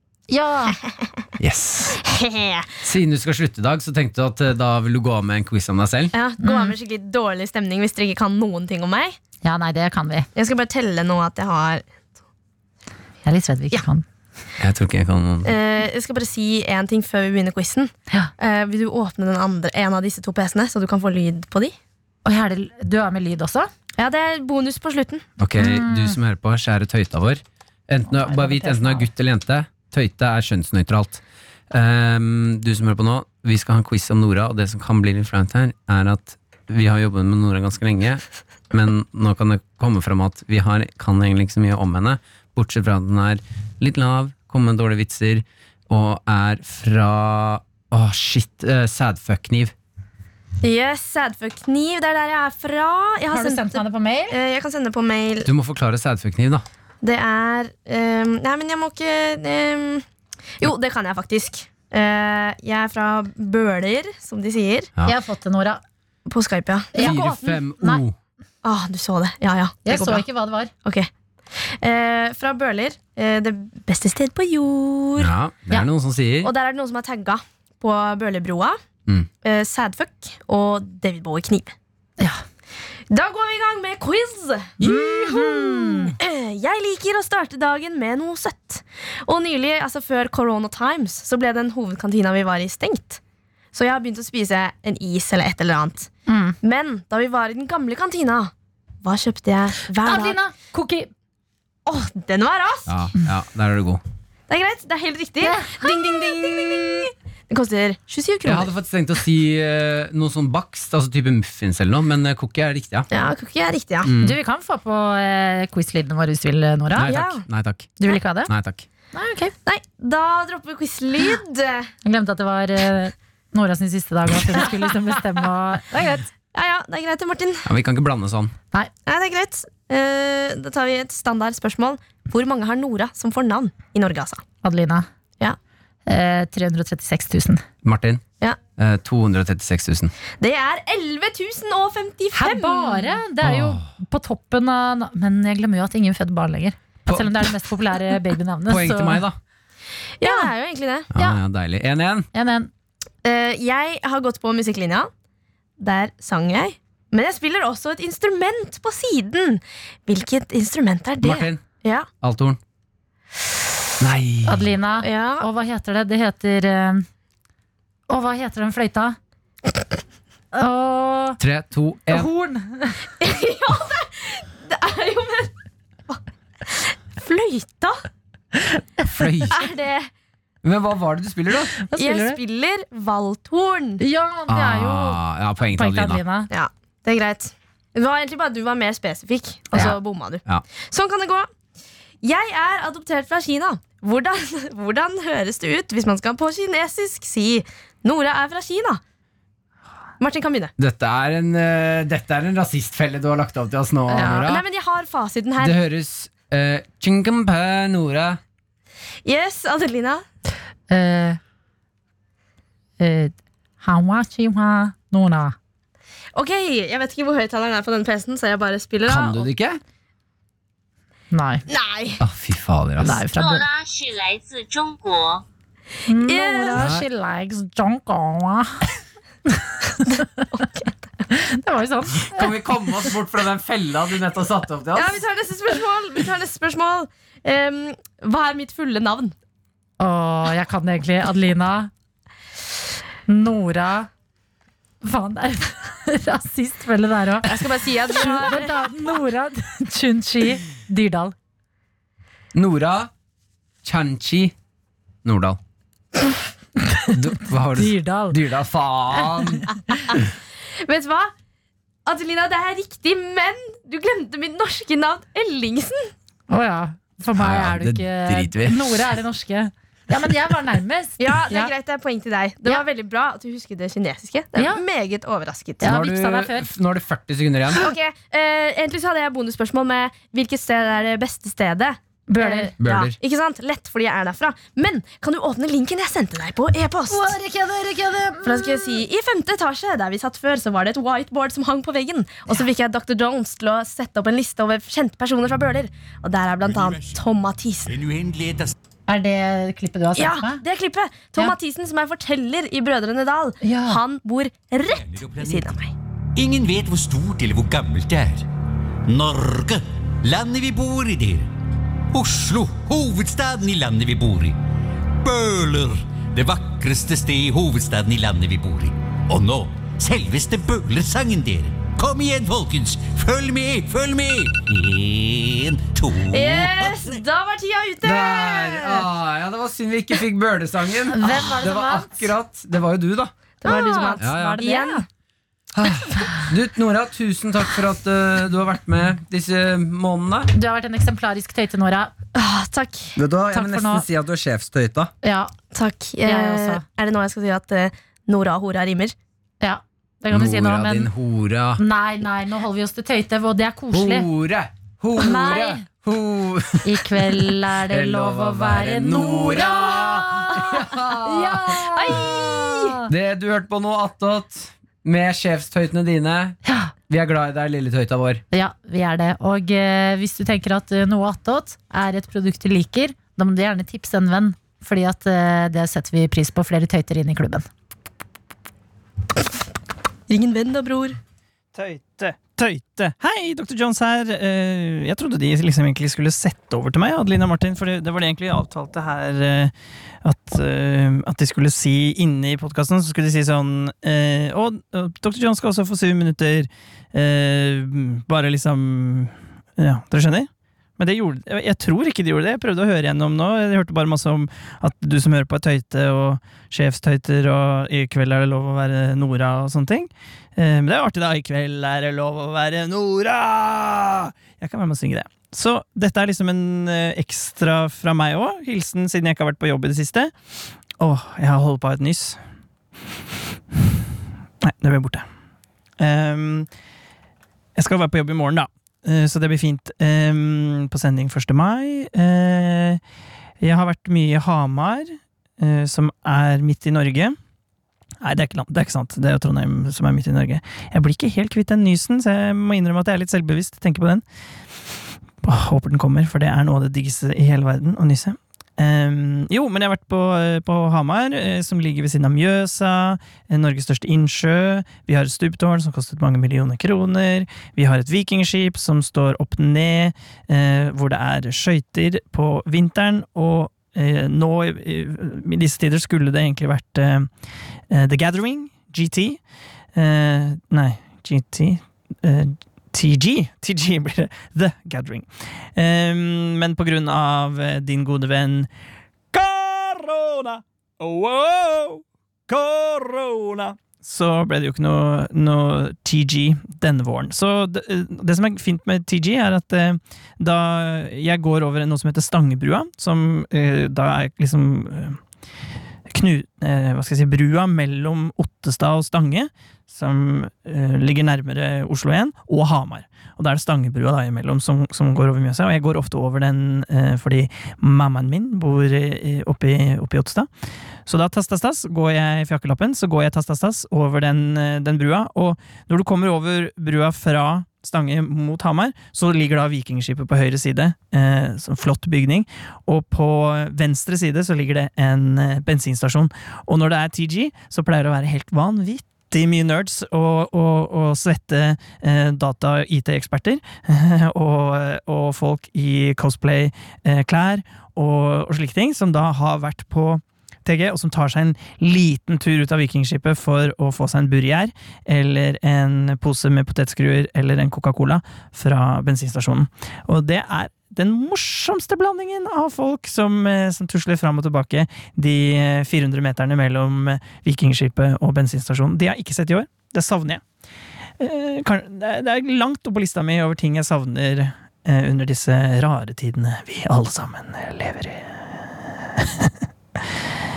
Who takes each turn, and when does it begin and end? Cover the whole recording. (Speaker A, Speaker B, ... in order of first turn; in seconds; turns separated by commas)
Speaker A: 0.3-0.8, Speaker B: 0.8-1.2, Speaker C: 1.4-2.0, Speaker B: 2.0-2.7, Speaker C: 2.8-6.1, Speaker B: 6.1-9.2, Speaker A: 6.4-6.8, Speaker A: 9.4-10.3, Speaker B: 10.4-11.9, Speaker A: 13.2-14.1, Speaker C: 14.6-15.5, Speaker B: 15.4-21.8, Speaker A: 22.2-23.7, Speaker B: 24.0-25.3, Speaker C: 25.4-49.7, Speaker A: 25.6-26.2, Speaker A: 28.1-29.1, Speaker B: 50.6-55.5, Speaker A: 53.3-54.4, Speaker C: 55.4-56.6, Speaker B: 57.0-60.1, Speaker B: 60.6-64.9, Speaker A: 65.0-65.8, Speaker B: 66.3-67.3, Speaker A: 66.9-68.0, Speaker C: 67.0-68.2, Speaker B: 68.6-70.2, Speaker A: 69.8-70.7, Speaker B: 70.8-75.3, Speaker C: 75.2-76.5, Speaker B: 76.4-78.8, Speaker B: 79.4-81.7, Speaker B: 83.1-93.2, Speaker A: 84.8-86.2, Speaker B: 93.7-96.1, Speaker A: 96.3-96.6, Speaker B: 96.6-98.5, Speaker B: 99.0-100.4, Speaker A: 100.0-101.1, Speaker B: 101.9-103.0, Speaker C: 102.9-104.0, Speaker B: 104.5-108.7, Speaker A: 105.4-106.9, Speaker C: 108.5-113.1, Speaker B: 113.1-114.1, Speaker C: 114.0-114.4, Speaker A: 114.2-117.1, Speaker C: 117.0-118.8, Speaker B: 117.1-117.4, Speaker A: 118.0-118.5, Speaker A: 119.1-119.5, Speaker B: 119.7-121.9, Speaker A: 122.0-126.3, Speaker B: 126.5-127.7, Speaker C: 127.7-128.5, Speaker B: 129.1-134.4, Speaker A: 134.6-135.1, Speaker A: 136.1-137.6, Speaker C: 137.8-138.2, Speaker C: 138.8-140.1, Speaker B: 140.4-143.2, Speaker A: 142.3-149.2, Speaker C: 143.4-143.9, Speaker C: 147.1-147.5, Speaker C: 148.7-149.4, Speaker B: 150.2-151.1, Speaker A: 150.2-150.5, Speaker C: 151.1-152.3, Speaker A: 152.3-152.7, Speaker B: 153.2-155.1, Speaker B: 155.8-162.1, Speaker C: 161.2-161.6, Speaker C: 162.2-162.6, Speaker C: 164.0-164.7, Speaker A: 164.5-167.1, Speaker B: 165.0-165.5, Speaker A: 168.1-169.2, Speaker A: 170.5-171.4, Speaker C: 171.4-172.3, Speaker A: 172.1-173.0, Speaker B: 173.2-175.5, Speaker B: 176.1-178.1, Speaker A: 178.7-179.5, Speaker C: 179.1-179.6, Speaker B: 179.5-180.1, Speaker C: 180.6-181.8, Speaker A: 181.8-182.4, Speaker B: 181.9-184.0, Speaker A: 184.0-186.5, Speaker C: 184.5-186.2, Speaker B: 186.5-191.5, Speaker B: 192.2-199.0, Speaker B: 200.2-200.7, Speaker C: 200.8-204.6, Speaker B: 204.1-205.8, Speaker A: 204.1-204.4, Speaker C: 205.6-208.4, Speaker B: 209.2-210.2, Speaker A: 210.9-211.4, Speaker A: 213.0-215.6, Speaker B: 216.3-219.5, Speaker C: 219.1-219.8, Speaker A: 221.3-221.6, Speaker B: 221.7-222.2, Speaker C: 222.2-223.2, Speaker A: 223.0-223.7, Speaker D: 223.3-225.4, Speaker A: 226.1-228.8, Speaker B: 226.2-226.9, Speaker C: 226.8-227.1, Speaker A: 229.5-230.2, Speaker B: 230.5-230.9, Speaker A: 231.3-232.5, Speaker C: 232.3-235.2, Speaker B: 235.0-239.3, Speaker A: 240.0-241.9, Speaker A: 243.3-244.1, Speaker A: 245.0-251.3, Speaker B: 247.4-248.9, Speaker C: 252.5-253.1, Speaker C: 253.8-254.5, Speaker C: 255.2-255.6, Speaker A: 256.8-257.2, Speaker C: 257.1-259.7, Speaker A: 257.7-258.4, Speaker B: 260.8-261.3, Speaker B: 262.1-266.1, Speaker A: 266.5-271.7, Speaker C: 267.4-269.0, Speaker B: 271.2-275.9, Speaker A: 274.6-274.8, Speaker A: 275.8-276.7, Speaker C: 275.9-277.9, Speaker B: 277.7-287.3, Speaker A: 282.3-282.7, Speaker C: 282.8-283.2, Speaker A: 287.1-289.0, Speaker B: 288.4-297.9, Speaker E: 296.6-297.2, Speaker E: 297.9-298.7, Speaker A: 299.1-300.6, Speaker B: 300.2-305.9, Speaker A: 303.6-304.0, Speaker E: 304.8-305.8, Speaker E: 306.4-308.5, Speaker E: 309.1-311.5, Speaker E: 312.1-314.6, Speaker E: 315.2-327.2, Speaker B: 326.3-329.1, Speaker C: 328.0-333.3, Speaker A: 331.1-332.3, Speaker B: 333.6-335.0, Speaker A: 333.6-335.1, Speaker C: 334.2-334.6, Speaker C: 335.8-340.5, Speaker A: 340.5-342.1, Speaker B: 342.4-343.1, Speaker C: 343.2-345.1, Speaker A: 343.5-344.1, Speaker A: 345.2-345.5, Speaker B: 345.7-349.1, Speaker A: 346.2-346.8, Speaker A: 349.6-351.1, Speaker C: 350.3-351.8, Speaker A: 351.8-354.3, Speaker C: 353.9-362.1, Speaker A: 355.2-355.9, Speaker A: 356.8-363.1, Speaker B: 361.9-362.9, Speaker C: 363.1-368.4, Speaker A: 366.6-366.9, Speaker A: 368.5-377.7, Speaker B: 380.3-381.2, Speaker F: 381.7-389.7, Speaker F: 390.2-420.3, Speaker F: 421.0-422.4, Speaker F: 424.6-425.3, Speaker F: 426.0-426.7, Speaker F: 427.8-433.0, Speaker F: 433.6-437.4, Speaker F: 438.2-444.2, Speaker F: 445.4-467.3, Speaker F: 467.9-469.4, Speaker F: 469.9-478.7, Speaker F: 479.3-495.2, Speaker F: 496.1-510.5, Speaker F: 511.1-560.4, Speaker F: 561.2-568.5, Speaker F: 569.2-570.1